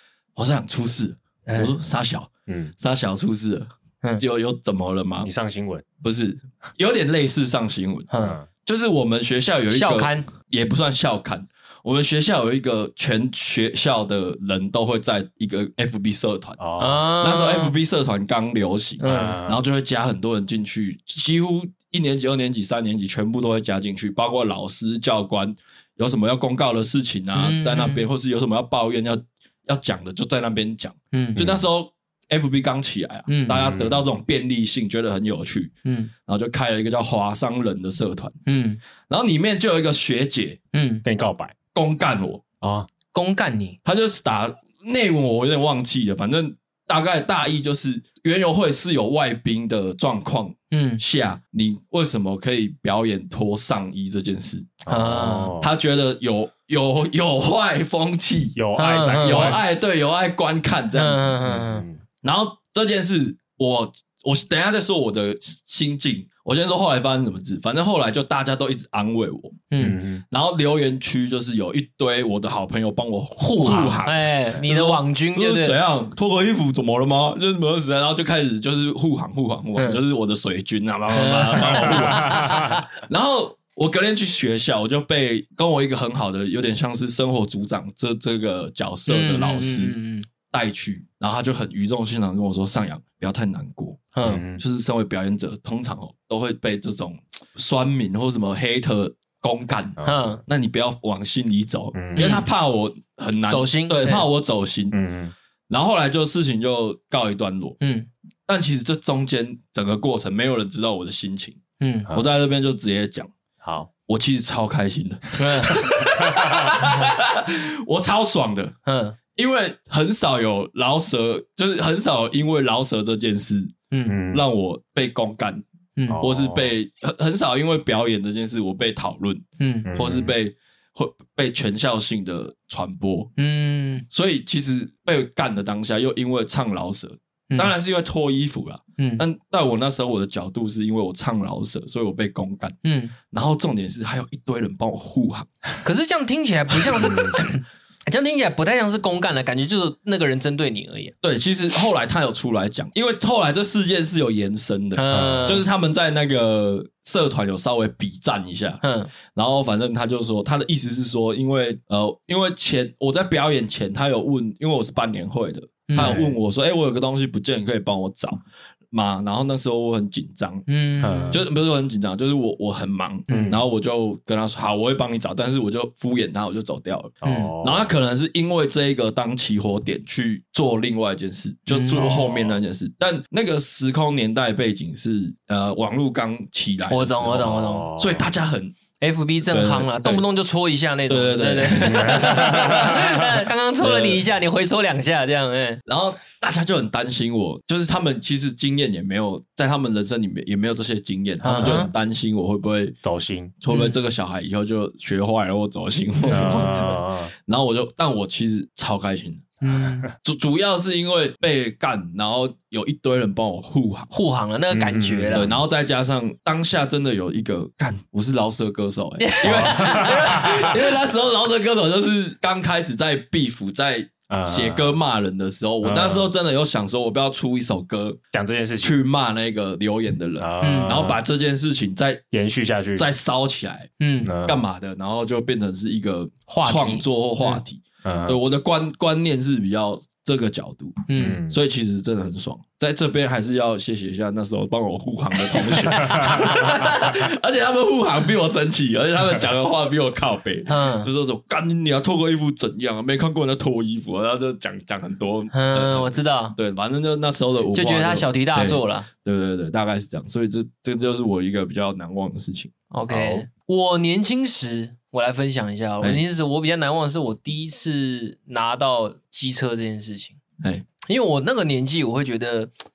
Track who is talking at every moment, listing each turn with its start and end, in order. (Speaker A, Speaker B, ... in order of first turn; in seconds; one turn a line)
Speaker A: 0.4-5.3
Speaker B: 1.5-1.7
Speaker C: 2.5-2.7
Speaker C: 5.2-5.8
Speaker A: 6.0-8.1
Speaker B: 8.1-8.4
Speaker C: 8.2-8.5
Speaker A: 8.6-16.6
Speaker B: 9.7-10.3
Speaker C: 16.6-17.1
Speaker B: 16.8-17.8
Speaker A: 17.2-35.7
Speaker B: 19.0-19.4
Speaker C: 19.1-19.6
Speaker B: 27.4-28.0
Speaker B: 31.1-31.4
Speaker C: 31.4-31.6
Speaker B: 33.3-33.6
Speaker C: 33.5-34.0
Speaker B: 35.9-36.1
Speaker A: 36.3-38.3
Speaker B: 38.5-38.8
Speaker A: 39.1-40.6
Speaker B: 40.7-41.0
Speaker C: 41.0-41.5
Speaker A: 41.7-42.4
Speaker C: 42.6-42.9
Speaker B: 43.1-43.8
Speaker A: 43.9-54.9
Speaker B: 50.7-51.0
Speaker C: 54.9-55.7
Speaker B: 54.9-55.5
Speaker A: 55.6-58.6
Speaker C: 58.6-59.6
Speaker B: 58.8-59.6
Speaker A: 59.2-61.5
Speaker B: 61.0-61.9
Speaker C: 61.5-62.0
Speaker A: 62.2-69.7
Speaker B: 69.7-70.0
Speaker C: 69.8-70.2
Speaker A: 70.3-90.0
Speaker B: 73.4-75.8
Speaker C: 73.7-74.1
Speaker B: 81.1-82.8
Speaker C: 81.8-82.5
Speaker B: 89.1-90.3
Speaker A: 90.5-105.0
Speaker B: 94.1-94.4
Speaker C: 94.2-94.6
Speaker B: 100.0-100.4
Speaker C: 102.0-102.4
Speaker B: 102.2-102.5
Speaker B: 103.5-104.3
Speaker C: 104.9-105.3
Speaker A: 105.7-107.8
Speaker B: 107.8-108.1
Speaker A: 108.5-111.6
Speaker B: 111.8-112.1
Speaker A: 112.1-113.3
Speaker C: 113.6-113.9
Speaker A: 114.1-118.7
Speaker B: 115.4-115.8
Speaker C: 116.3-116.6
Speaker B: 118.9-119.2
Speaker A: 119.4-123.8
Speaker B: 123.9-124.2
Speaker C: 124.1-124.4
Speaker A: 124.3-125.6
Speaker B: 126.0-126.2
Speaker C: 126.1-126.7
Speaker A: 126.2-133.3
Speaker B: 129.6-129.9
Speaker C: 129.9-130.3
Speaker B: 133.4-134.1
Speaker A: 134.1-142.8
Speaker B: 139.0-139.2
Speaker B: 142.8-143.2
Speaker A: 143.3-145.5
Speaker B: 145.8-151.1
Speaker A: 151.2-168.4
Speaker B: 155.0-155.7
Speaker C: 155.1-155.6
Speaker B: 158.8-159.1
Speaker B: 165.9-166.2
Speaker C: 165.9-166.3
Speaker A: 168.9-170.7
Speaker B: 170.7-171.4
Speaker C: 171.0-171.4
Speaker A: 171.3-188.8
Speaker B: 173.3-173.6
Speaker C: 173.3-173.6
Speaker C: 177.2-177.9
Speaker B: 177.2-177.5
Speaker B: 181.7-182.3
Speaker B: 186.9-187.9
Speaker C: 187.4-188.3
Speaker B: 189.0-195.8
Speaker A: 189.5-190.2
Speaker A: 191.1-194.2
Speaker C: 191.8-192.9
Speaker A: 195.9-203.0
Speaker B: 201.4-201.9
Speaker C: 203.0-203.6
Speaker A: 203.6-209.5
Speaker B: 203.7-204.0
Speaker B: 206.2-206.8
Speaker C: 206.3-207.3
Speaker B: 209.6-210.1
Speaker A: 210.2-214.1
Speaker B: 214.1-215.5
Speaker C: 214.7-215.5
Speaker A: 215.3-228.2
Speaker B: 219.2-221.0
Speaker C: 219.4-220.6
Speaker C: 224.3-224.9
Speaker C: 225.8-226.3
Speaker C: 228.3-228.9
Speaker A: 228.8-232.2
Speaker C: 230.4-231.2
Speaker B: 230.6-231.0
Speaker C: 232.3-233.1
Speaker A: 233.0-233.9
Speaker B: 234.0-234.3
Speaker C: 234.2-234.6
Speaker A: 234.4-263.4
Speaker B: 236.5-237.6
Speaker C: 238.1-238.4
Speaker B: 241.1-241.4
Speaker C: 241.2-241.6
Speaker B: 245.4-246.8
Speaker C: 245.9-246.5
Speaker B: 250.7-251.1
Speaker B: 255.5-256.6
Speaker B: 257.7-259.1
Speaker B: 262.9-270.4
Speaker B: 271.0-272.7